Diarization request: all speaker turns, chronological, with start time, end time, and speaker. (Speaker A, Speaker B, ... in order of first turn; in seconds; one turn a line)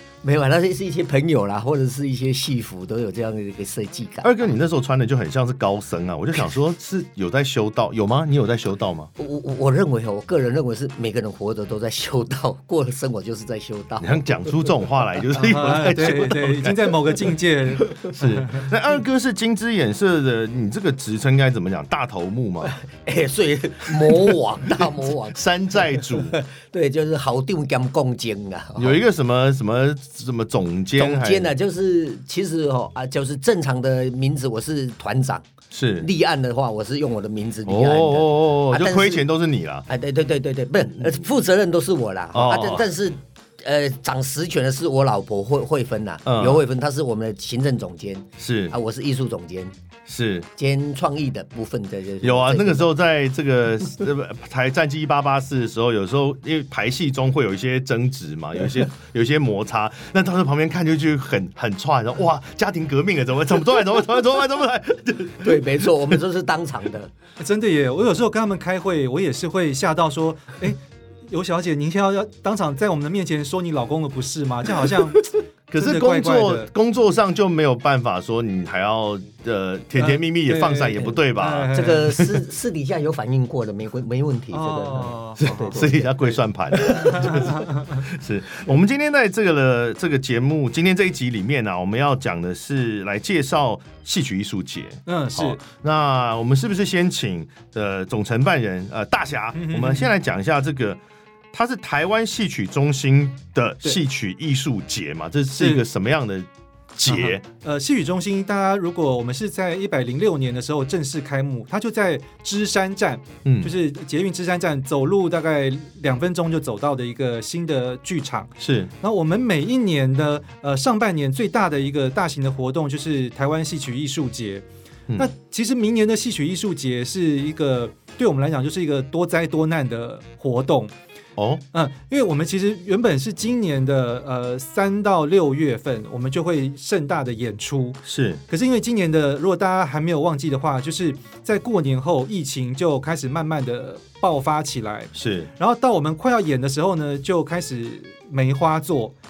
Speaker A: 0.2-4.5
Speaker B: 4.2-9.1
Speaker A: 9.2-14.7
Speaker B: 14.0-16.9
Speaker C: 15.4-18.7
Speaker B: 18.1-22.7
Speaker A: 22.6-29.0
Speaker B: 25.3-26.4
Speaker B: 28.8-31.5
Speaker A: 31.0-35.5
Speaker B: 35.7-36.1
Speaker A: 36.0-39.2
Speaker B: 37.6-39.9
Speaker A: 39.9-49.7
Speaker B: 42.3-42.9
Speaker B: 46.2-46.6
Speaker B: 48.4-48.7
Speaker B: 50.1-50.5
Speaker A: 50.6-52.9
Speaker B: 52.2-66.2
Speaker A: 65.4-67.1
Speaker C: 67.4-75.2
Speaker B: 75.7-82.4
Speaker C: 75.8-76.7
Speaker C: 80.0-82.2
Speaker A: 81.7-87.3
Speaker C: 84.5-85.8
Speaker B: 85.7-101.0
Speaker C: 87.0-88.0
Speaker C: 95.0-95.6
Speaker C: 99.5-100.1
Speaker B: 101.5-107.4
Speaker C: 105.5-105.8
Speaker C: 107.0-124.6
Speaker B: 113.4-113.7
Speaker B: 118.6-118.9
Speaker C: 125.2-130.9
Speaker B: 131.4-131.6
Speaker C: 131.7-149.1
Speaker B: 138.0-138.4
Speaker B: 145.1-145.5